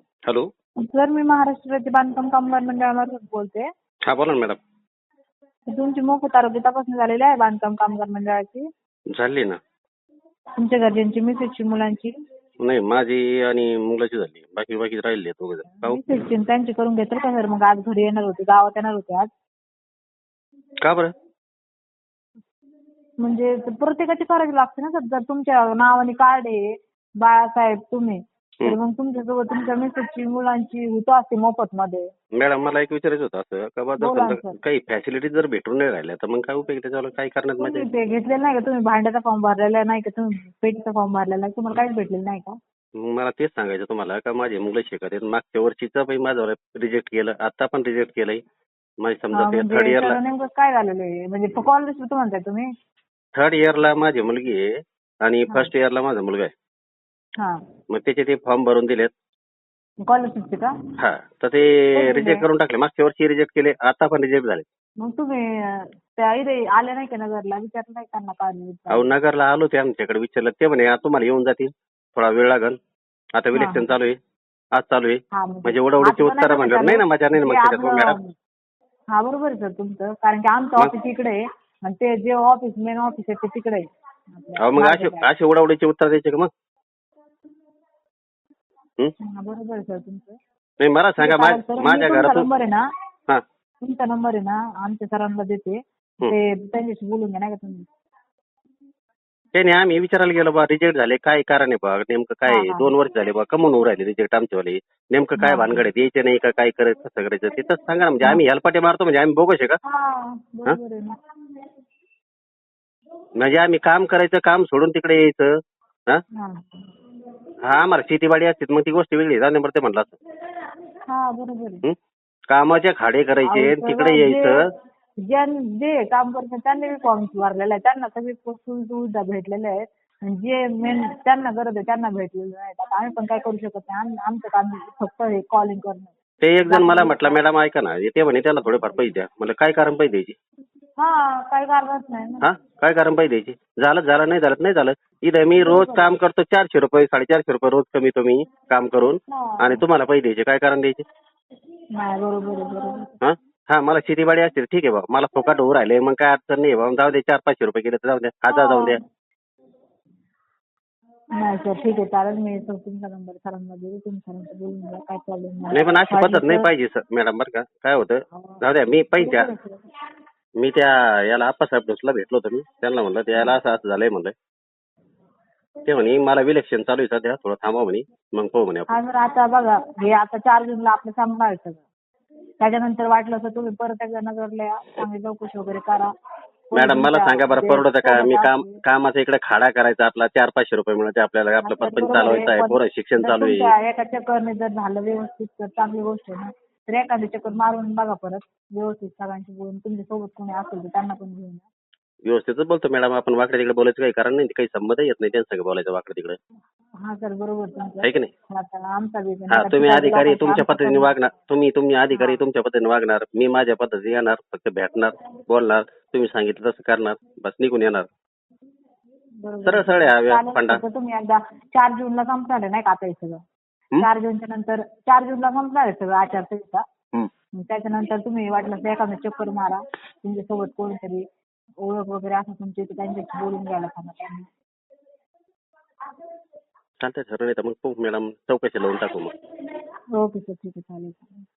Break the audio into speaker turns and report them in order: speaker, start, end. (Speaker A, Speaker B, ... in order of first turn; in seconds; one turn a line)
Speaker A: 0.8-3.7
Speaker B: 4.1-4.6
Speaker A: 5.7-8.6
Speaker B: 9.2-9.6
Speaker A: 10.6-12.1
Speaker B: 12.6-16.0
Speaker A: 15.7-19.3
Speaker B: 20.8-21.1
Speaker A: 23.2-32.1
Speaker B: 32.4-37.9
Speaker A: 34.0-34.6
Speaker A: 37.6-42.6
Speaker B: 43.0-48.4
Speaker B: 49.0-50.2
Speaker A: 49.3-52.7
Speaker B: 53.4-54.6
Speaker B: 55.2-56.5
Speaker B: 57.9-59.1
Speaker A: 60.0-60.7
Speaker B: 61.0-64.7
Speaker A: 62.0-62.4
Speaker A: 65.0-69.1
Speaker B: 68.9-72.8
Speaker B: 73.3-74.2
Speaker A: 73.5-73.9
Speaker B: 74.7-78.2
Speaker A: 75.3-78.3
Speaker A: 79.1-85.3
Speaker B: 84.6-86.5
Speaker A: 89.2-90.4
Speaker B: 90.8-92.5
Speaker A: 91.2-92.8
Speaker A: 93.8-97.9
Speaker B: 99.5-109.8
Speaker A: 102.5-102.9
Speaker A: 105.4-105.8
Speaker A: 109.8-111.2
Speaker B: 113.4-115.5
Speaker A: 116.4-116.9
Speaker B: 117.6-120.2
Speaker A: 121.1-121.8
Speaker B: 122.5-124.6
Speaker A: 123.4-124.6
Speaker A: 125.2-136.1
Speaker B: 136.4-140.3
Speaker A: 136.7-137.4
Speaker A: 141.0-142.5
Speaker B: 142.4-151.0
Speaker A: 145.6-146.2
Speaker A: 149.3-149.8
Speaker A: 152.0-153.1
Speaker B: 153.2-159.0
Speaker A: 158.5-159.0
Speaker A: 161.4-166.7
Speaker B: 165.7-169.5
Speaker A: 169.2-169.8
Speaker B: 170.6-174.3
Speaker B: 175.8-179.0
Speaker A: 178.9-181.8
Speaker A: 182.6-186.1
Speaker A: 186.7-188.8
Speaker B: 186.7-193.7
Speaker A: 191.6-201.7
Speaker B: 202.2-206.4
Speaker A: 207.0-211.2
Speaker B: 208.0-208.3
Speaker B: 209.5-218.1
Speaker A: 212.1-212.4
Speaker A: 219.4-223.4
Speaker B: 219.7-220.8
Speaker A: 224.0-226.8
Speaker A: 227.5-231.2
Speaker A: 231.8-234.5
Speaker B: 237.0-239.3
Speaker A: 240.2-241.5